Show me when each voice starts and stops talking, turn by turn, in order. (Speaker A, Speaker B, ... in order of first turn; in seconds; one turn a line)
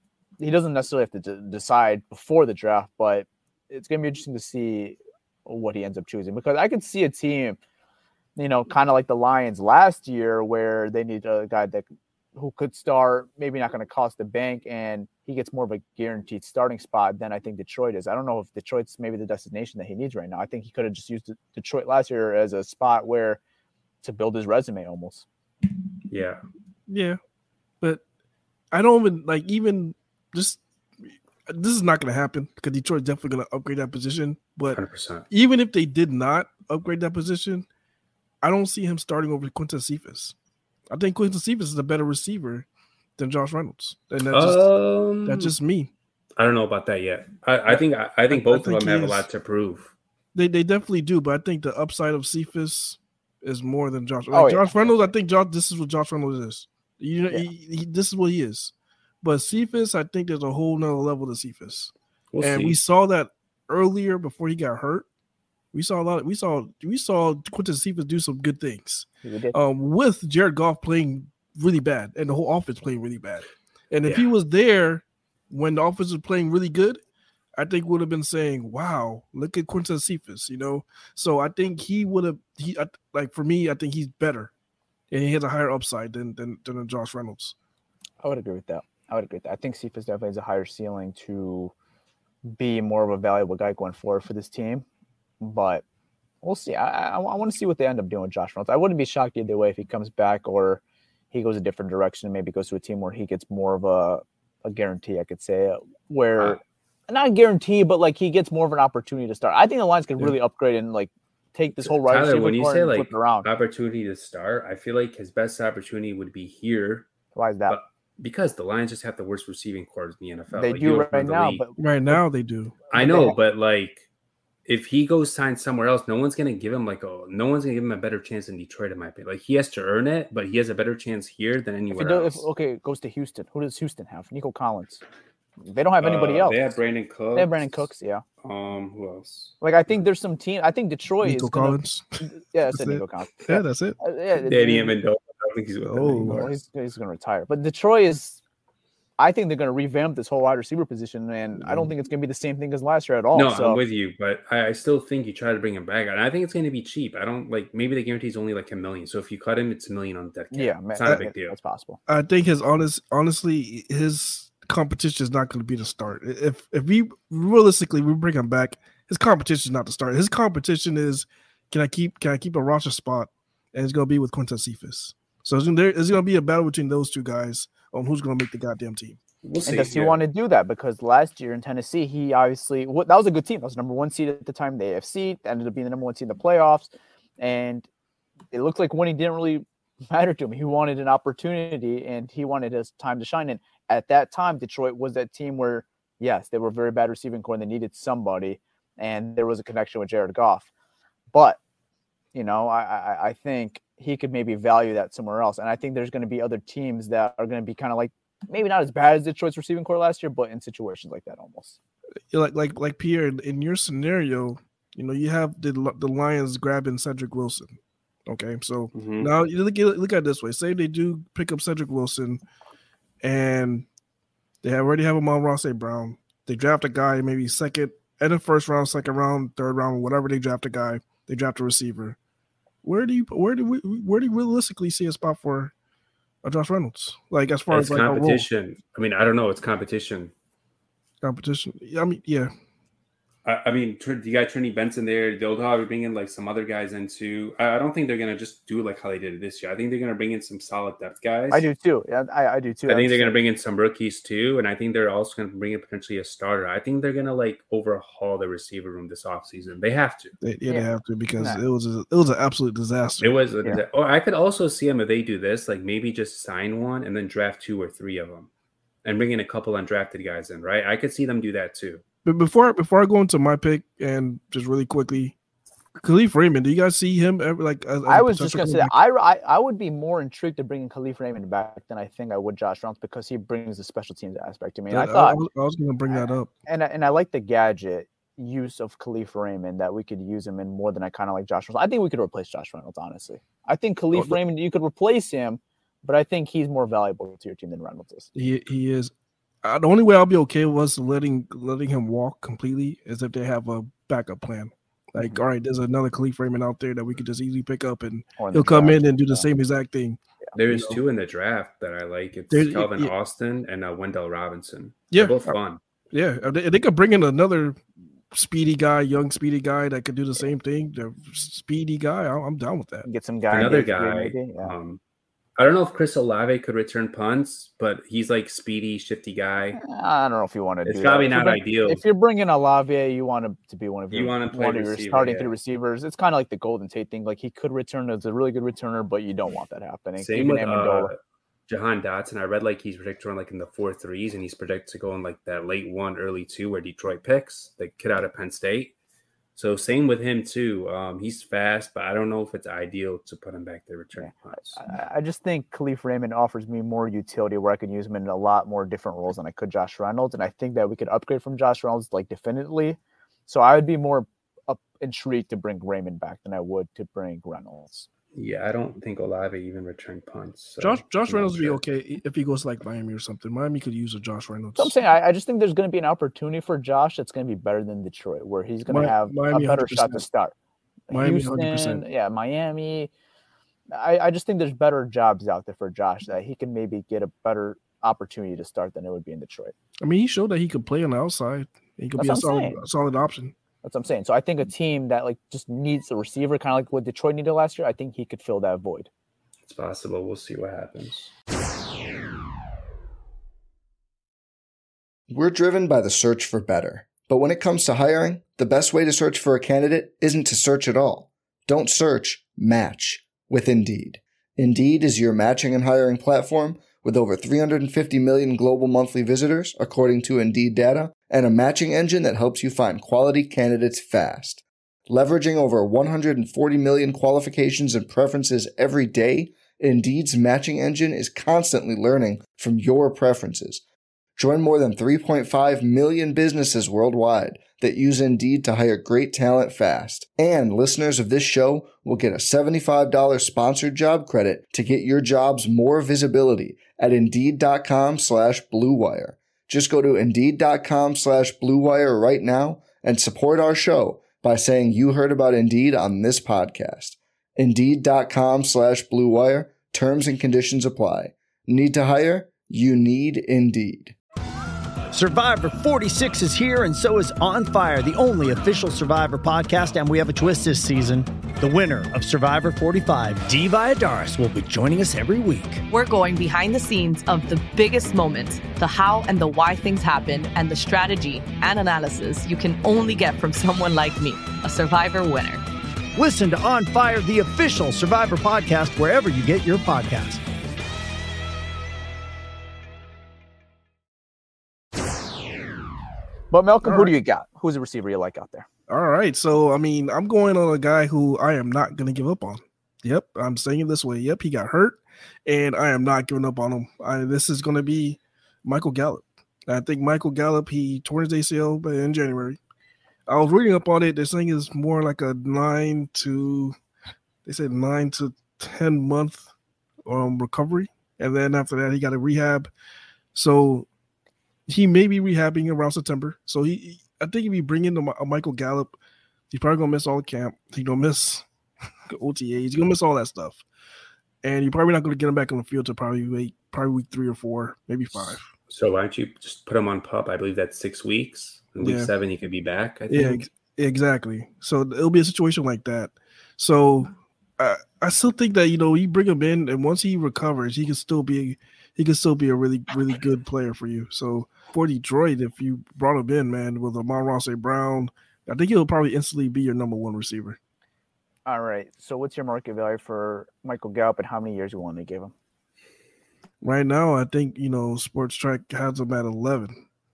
Speaker A: 0.4-7.6
Speaker A: 8.4-23.4
Speaker A: 24.0-25.2
Speaker B: 26.1-26.4
Speaker C: 26.9-27.2
Speaker C: 28.7-30.6
Speaker C: 31.5-34.8
Speaker B: 34.7-35.2
Speaker C: 35.3-37.7
Speaker C: 38.4-40.3
Speaker C: 40.9-44.7
Speaker B: 44.3-45.5
Speaker C: 45.2-45.9
Speaker B: 46.4-49.9
Speaker C: 47.7-49.2
Speaker C: 50.4-65.1
Speaker A: 54.3-55.1
Speaker B: 62.3-62.8
Speaker C: 65.7-77.0
Speaker A: 69.2-69.5
Speaker C: 77.6-84.5
Speaker C: 85.1-87.5
Speaker A: 88.2-91.7
Speaker A: 92.5-94.8
Speaker A: 95.4-95.8
Speaker A: 96.4-113.5
Speaker B: 111.8-117.1
Speaker A: 117.3-117.8
Speaker B: 117.7-121.6
Speaker A: 120.5-122.2
Speaker C: 121.8-122.8
Speaker A: 122.9-123.4
Speaker B: 122.9-124.1
Speaker B: 124.7-132.4
Speaker A: 131.9-135.0
Speaker A: 135.6-136.6
Speaker B: 136.0-137.9
Speaker A: 137.3-138.2
Speaker B: 138.4-139.5
Speaker A: 139.6-145.0
Speaker C: 141.2-144.0
Speaker B: 144.5-146.5
Speaker C: 145.8-146.5
Speaker A: 146.2-148.4
Speaker A: 149.2-153.8
Speaker C: 151.6-151.9
Speaker B: 153.3-161.6
Speaker A: 160.5-162.0
Speaker C: 162.1-179.2
Speaker B: 179.4-180.2
Speaker A: 179.7-187.9
Speaker A: 188.5-200.7
Speaker A: 201.3-201.6
Speaker A: 202.3-211.8
Speaker C: 212.3-217.8
Speaker C: 218.3-222.4
Speaker B: 218.9-219.3
Speaker C: 223.2-223.9
Speaker C: 224.6-232.2
Speaker C: 232.8-235.7
Speaker C: 236.4-238.5
Speaker B: 237.7-240.3
Speaker C: 241.2-242.5
Speaker B: 243.4-251.7
Speaker A: 251.5-253.4
Speaker B: 252.9-260.4
Speaker C: 260.4-263.4
Speaker A: 260.7-261.6
Speaker B: 263.2-268.5
Speaker B: 269.0-272.0
Speaker C: 272.2-275.4
Speaker C: 276.0-278.9
Speaker A: 278.1-285.4
Speaker C: 284.9-286.5
Speaker A: 286.1-298.3
Speaker C: 294.1-294.4
Speaker C: 298.3-299.1
Speaker C: 299.6-311.0
Speaker A: 308.4-309.5
Speaker B: 310.5-315.8
Speaker C: 312.5-313.1
Speaker C: 315.1-315.6
Speaker C: 316.1-323.1
Speaker A: 323.0-324.7
Speaker B: 323.5-325.0
Speaker B: 325.6-329.8
Speaker A: 329.7-341.1
Speaker B: 330.9-332.0
Speaker B: 334.1-335.5
Speaker B: 340.2-348.9
Speaker B: 349.5-354.8
Speaker A: 354.2-368.1
Speaker B: 368.4-371.8
Speaker C: 370.8-374.9
Speaker A: 374.8-380.5
Speaker C: 378.9-380.2
Speaker A: 381.1-383.1
Speaker C: 381.1-382.0
Speaker A: 383.9-389.7
Speaker C: 390.0-393.5
Speaker A: 392.2-392.8
Speaker A: 393.8-399.1
Speaker B: 399.6-401.3
Speaker D: 405.3-433.8
Speaker D: 434.4-464.2
Speaker E: 465.1-475.8
Speaker F: 475.9-485.6
Speaker E: 486.2-490.4
Speaker A: 496.5-498.7
Speaker C: 496.8-497.1
Speaker C: 498.9-512.6
Speaker C: 513.3-516.8
Speaker C: 517.5-519.5
Speaker C: 520.0-522.7
Speaker C: 523.3-523.9
Speaker C: 524.7-529.0
Speaker C: 529.5-531.5
Speaker C: 532.1-533.6
Speaker C: 534.4-538.5
Speaker B: 538.2-543.4
Speaker C: 541.8-542.1
Speaker C: 543.1-560.6
Speaker A: 561.5-565.3
Speaker C: 566.6-569.8